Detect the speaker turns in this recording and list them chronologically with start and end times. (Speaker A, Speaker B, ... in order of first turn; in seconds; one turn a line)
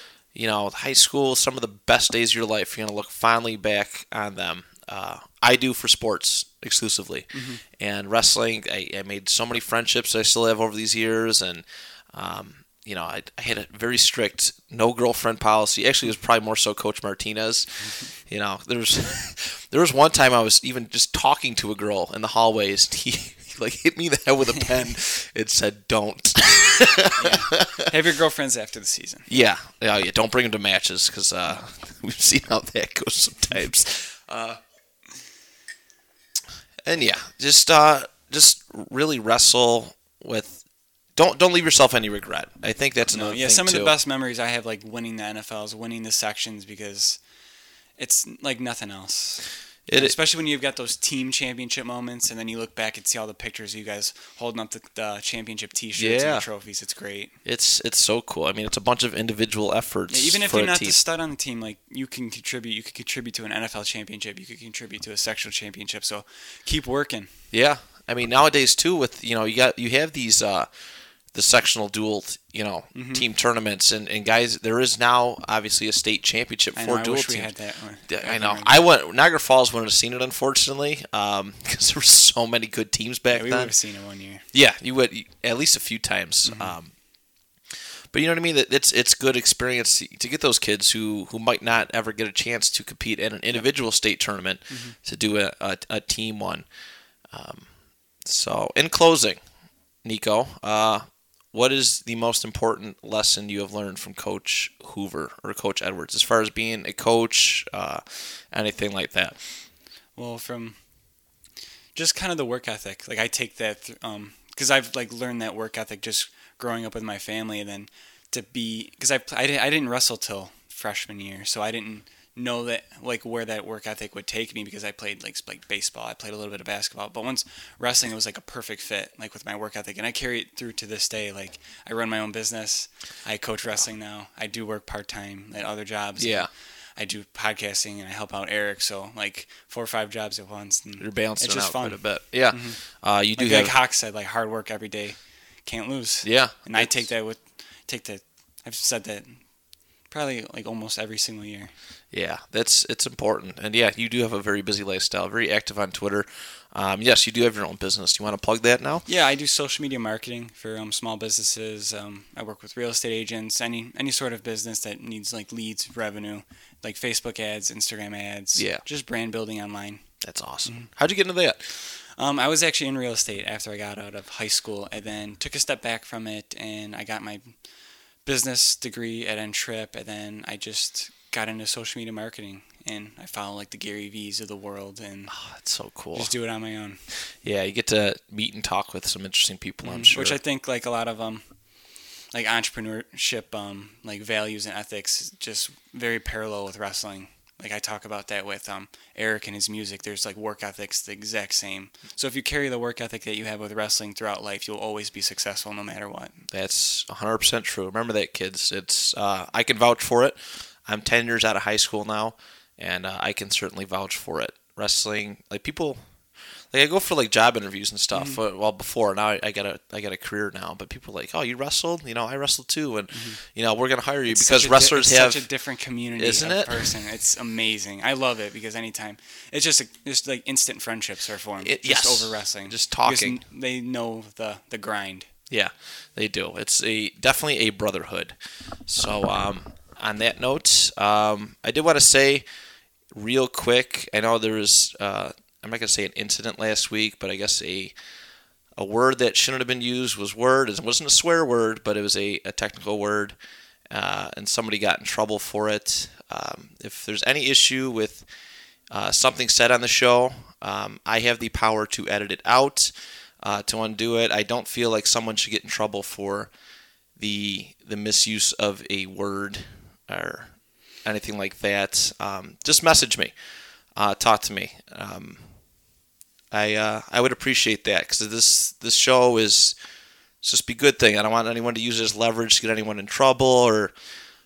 Speaker A: 0.3-27.9
Speaker B: 7.3-7.6
Speaker B: 27.2-29.3
Speaker A: 29.3-34.6
Speaker A: 36.9-40.6
Speaker A: 41.1-43.9
Speaker B: 43.1-47.2
Speaker B: 48.0-57.4
Speaker A: 49.9-50.1
Speaker A: 56.0-56.5
Speaker A: 57.5-61.0
Speaker B: 60.1-67.3
Speaker A: 67.5-70.7
Speaker A: 71.3-77.5
Speaker B: 72.9-73.3
Speaker B: 76.8-78.8
Speaker A: 78.1-83.7
Speaker B: 83.3-84.5
Speaker A: 84.5-87.0
Speaker B: 86.5-86.7
Speaker A: 87.7-96.7
Speaker B: 94.7-95.0
Speaker A: 97.3-97.7
Speaker A: 98.2-99.4
Speaker A: 100.0-109.6
Speaker B: 110.2-110.8
Speaker B: 112.0-142.8
Speaker A: 136.2-136.5
Speaker A: 141.0-143.7
Speaker B: 143.4-149.5
Speaker A: 146.2-147.1
Speaker B: 150.1-151.7
Speaker A: 152.1-159.1
Speaker B: 159.1-170.1
Speaker A: 168.6-168.8
Speaker A: 170.2-171.8
Speaker B: 170.6-170.9
Speaker B: 171.8-177.6
Speaker B: 178.2-185.3
Speaker A: 185.3-186.3
Speaker B: 186.1-187.0
Speaker A: 187.2-190.4
Speaker B: 189.8-191.6
Speaker B: 192.3-206.4
Speaker A: 206.5-216.0
Speaker A: 216.7-225.4
Speaker B: 218.1-218.4
Speaker B: 223.1-223.4
Speaker B: 224.3-235.3
Speaker A: 226.2-226.9
Speaker A: 231.6-233.4
Speaker A: 235.5-238.4
Speaker A: 238.9-242.4
Speaker A: 243.1-247.9
Speaker A: 248.8-253.4
Speaker A: 253.9-258.3
Speaker A: 258.9-266.5
Speaker A: 267.2-273.3
Speaker A: 274.0-275.5
Speaker A: 276.5-279.8
Speaker A: 280.4-283.9